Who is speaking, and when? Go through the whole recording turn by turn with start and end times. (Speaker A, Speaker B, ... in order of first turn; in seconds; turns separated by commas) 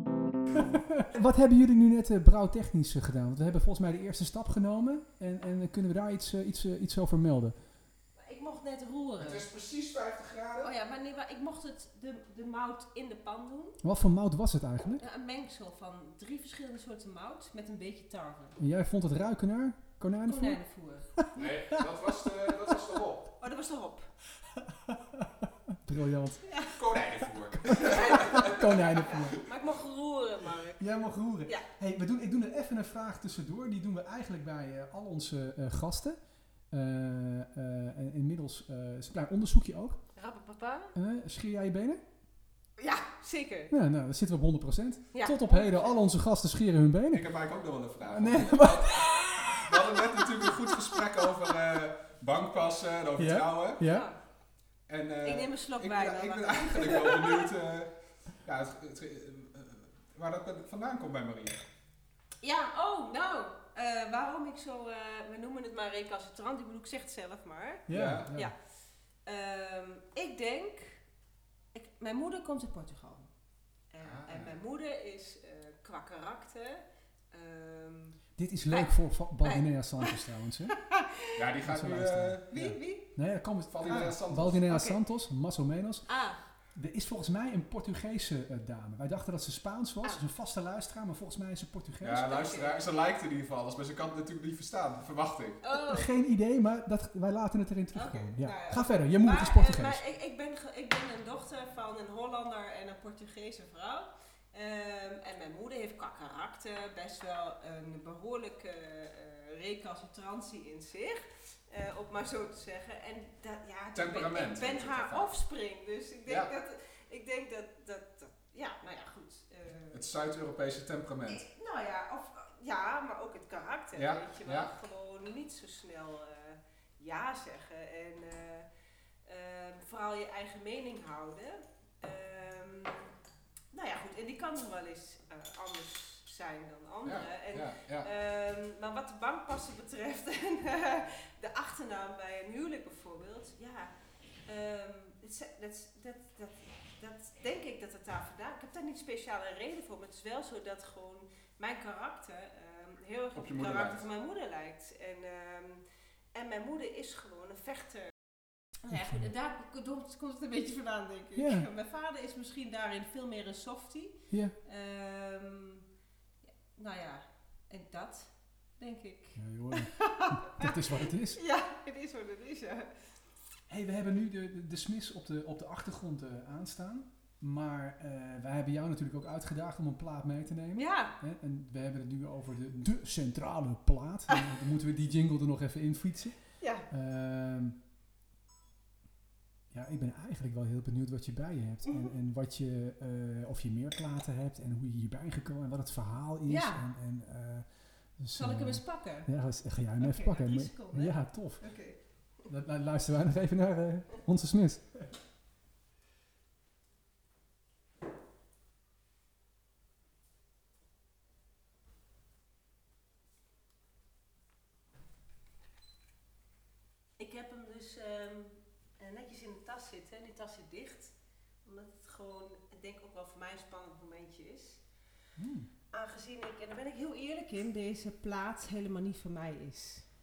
Speaker A: 0.6-7.6, Speaker B: 8.2-9.5, Speaker C: 9.2-10.7, Speaker B: 10.6-13.8, Speaker A: 13.8-15.0, Speaker B: 15.0-18.6, Speaker A: 18.6-20.6, Speaker B: 20.3-21.1, Speaker A: 21.2-21.8, Speaker C: 21.4-23.3, Speaker B: 23.4-24.1, Speaker A: 24.5-26.4, Speaker B: 26.5-26.8, Speaker C: 26.7-28.7, Speaker A: 27.6-29.4, Speaker B: 27.8-30.8, Speaker A: 30.8-36.2, Speaker A: 36.7-40.0, Speaker B: 40.2-41.0, Speaker A: 41.0-42.0, Speaker B: 42.8-43.7, Speaker A: 43.7-47.3, Speaker B: 45.1-46.0, Speaker C: 47.1-53.8, Speaker A: 48.1-50.5, Speaker A: 53.2-54.1, Speaker B: 53.9-54.2, Speaker C: 54.9-61.6, Speaker B: 55.2-57.5, Speaker B: 62.4-68.5, Speaker A: 67.9-68.5, Speaker C: 67.9-68.3, Speaker B: 69.3-71.0, Speaker B: 71.7-73.3, Speaker B: 73.9-80.2, Speaker C: 74.0-74.5, Speaker A: 78.4-80.8, Speaker B: 80.7-81.4, Speaker C: 81.3-82.5, Speaker A: 81.7-86.1, Speaker B: 82.5-83.1, Speaker C: 83.7-84.7, Speaker B: 84.7-85.0, Speaker B: 86.1-86.4, Speaker A: 86.8-92.4, Speaker C: 92.0-95.6, Speaker B: 92.3-92.8, Speaker B: 95.6-96.1, Speaker A: 95.9-100.0, Speaker B: 97.9-120.0, Speaker C: 113.9-115.3, Speaker C: 116.3-116.5, Speaker C: 119.9-121.5, Speaker B: 121.3-128.7, Speaker C: 124.0-124.7, Speaker B: 129.3-133.1, Speaker B: 133.7-143.9, Speaker C: 137.1-138.1, Speaker B: 144.5-155.8, Speaker C: 153.3-154.0, Speaker B: 156.3-158.2, Speaker B: 158.8-165.8, Speaker A: 158.9-159.3, Speaker A: 161.4-161.7, Speaker B: 166.7-172.9, Speaker A: 169.4-171.4, Speaker A: 173.7-186.4, Speaker B: 180.8-181.2, Speaker B: 186.6-186.9, Speaker A: 186.9-187.8, Speaker A: 189.7-197.7, Speaker B: 196.5-196.8, Speaker A: 198.2-201.7, Speaker B: 198.4-199.3, Speaker B: 200.0-202.0, Speaker A: 202.5-205.1, Speaker B: 217.2-221.1, Speaker B: 221.7-224.8, Speaker A: 225.4-225.7, Speaker B: 225.9-230.1